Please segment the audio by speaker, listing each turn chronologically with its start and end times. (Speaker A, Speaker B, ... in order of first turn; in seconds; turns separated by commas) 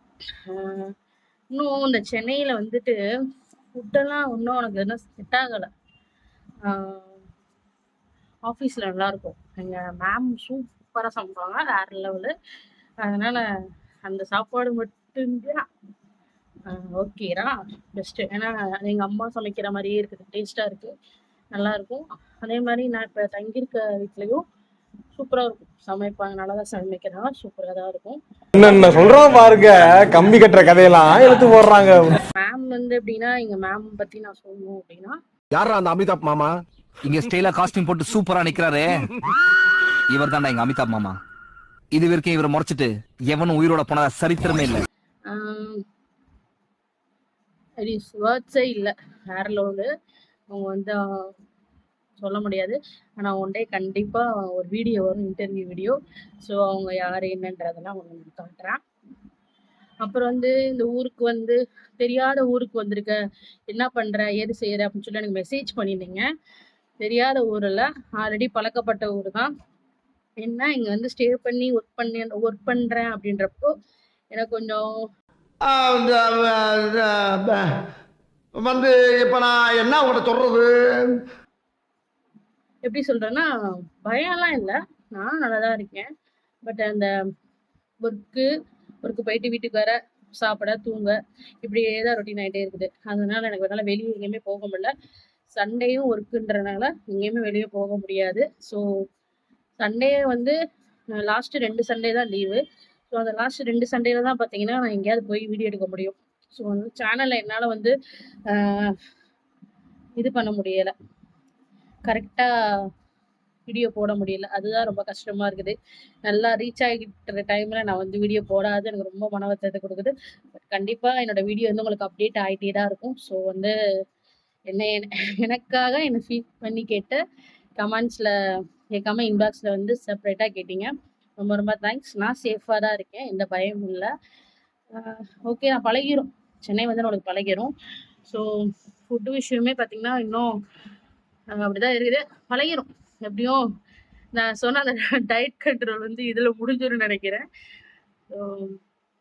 Speaker A: 0.5-0.9, Speaker A: 1.5-3.0, Speaker A: 3.8-5.7, Speaker A: 6.7-7.2, Speaker A: 8.4-12.3, Speaker A: 13.0-13.5, Speaker A: 14.1-15.7, Speaker A: 16.7-20.9, Speaker A: 21.5-24.4, Speaker A: 25.1-28.2, Speaker B: 28.6-32.2, Speaker A: 32.3-35.2, Speaker C: 35.5-36.5, Speaker D: 37.0-39.1, Speaker D: 40.1-41.2, Speaker D: 41.9-44.8, Speaker A: 45.3-45.8, Speaker A: 47.8-49.9, Speaker A: 50.5-51.3, Speaker A: 52.2-58.8, Speaker A: 60.0-63.2, Speaker A: 63.7-66.3, Speaker A: 67.0-69.5, Speaker A: 70.4-73.7, Speaker A: 74.3-75.1, Speaker C: 75.7-77.7, Speaker C: 78.6-81.2, Speaker A: 82.8-83.5, Speaker A: 84.0-86.1, Speaker A: 86.7-87.1, Speaker A: 88.0-88.5, Speaker A: 89.0-94.9, Speaker A: 95.5-99.0, Speaker A: 99.8-100.6, Speaker A: 101.2-108.0, Speaker A: 108.5-109.0, Speaker A: 110.2-110.9, Speaker A: 112.1-112.9, Speaker A: 113.7-123.7, Speaker A: 124.7-127.2, Speaker A: 127.8-128.3, Speaker A: 128.9-134.1, Speaker A: 134.9-137.7, Speaker A: 138.3-140.6, Speaker A: 141.5-143.6, Speaker A: 144.3-147.5, Speaker A: 148.3-148.8